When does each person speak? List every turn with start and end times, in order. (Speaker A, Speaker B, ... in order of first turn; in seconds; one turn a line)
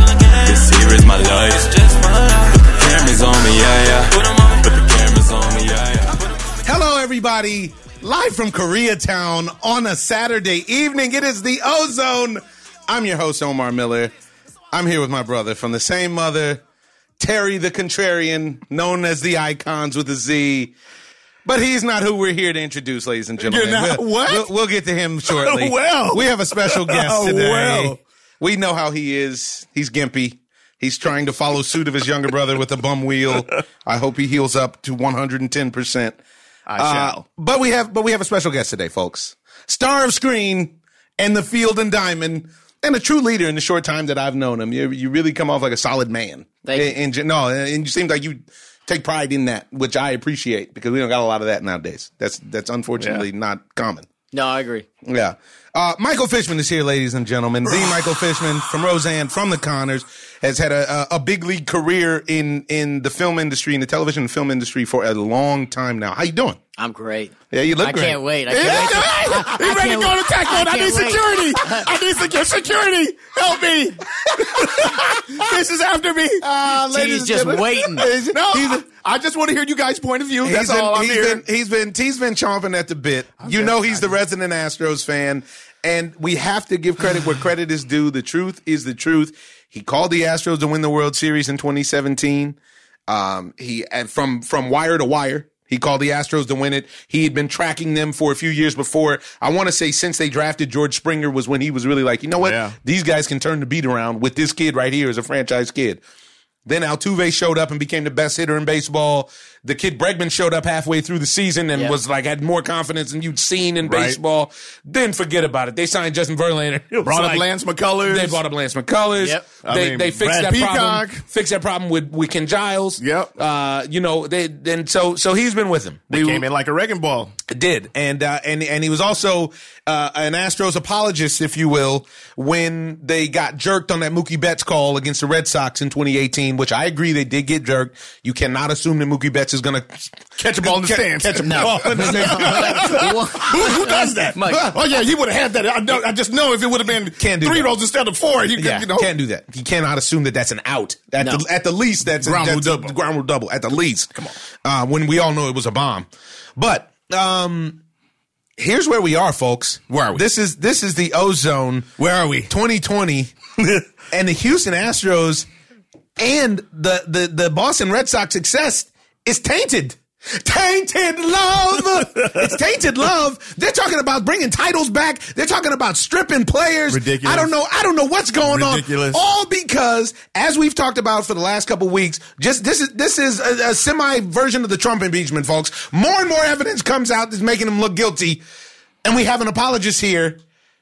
Speaker A: 0.3-6.5
Speaker B: 6.6-14.1
Speaker B: 14.7-16.6
Speaker B: 17.2-20.7
Speaker B: 21.4-36.2
Speaker C: 23.4-24.5
Speaker C: 25.3-28.0
Speaker C: 36.7-37.2
Speaker B: 36.8-54.1
Speaker D: 46.7-46.9
Speaker C: 53.0-53.2
Speaker D: 54.3-54.9
Speaker B: 55.0-66.6
Speaker D: 66.8-71.9
Speaker B: 67.5-69.4
Speaker C: 68.5-76.4
Speaker B: 74.5-75.5
Speaker B: 76.4-78.8
Speaker D: 76.9-78.1
Speaker C: 78.2-81.4
Speaker B: 80.4-92.6
Speaker C: 83.4-84.1
Speaker B: 93.1-106.0
Speaker C: 102.4-102.8
Speaker B: 106.7-117.5
Speaker C: 113.8-114.2
Speaker C: 117.0-118.4
Speaker B: 118.0-126.4
Speaker D: 119.2-119.5
Speaker C: 119.7-121.2
Speaker C: 123.0-123.3
Speaker C: 126.1-127.3
Speaker B: 127.5-143.9
Speaker C: 140.4-149.1
Speaker D: 141.4-144.7
Speaker B: 144.5-144.8
Speaker B: 147.2-147.7
Speaker B: 148.6-157.8
Speaker C: 152.2-152.9
Speaker B: 158.6-163.3
Speaker C: 159.9-160.2
Speaker C: 162.0-162.5
Speaker B: 164.1-165.5
Speaker B: 166.2-188.4
Speaker C: 176.9-177.5
Speaker C: 178.4-179.2
Speaker B: 189.0-190.4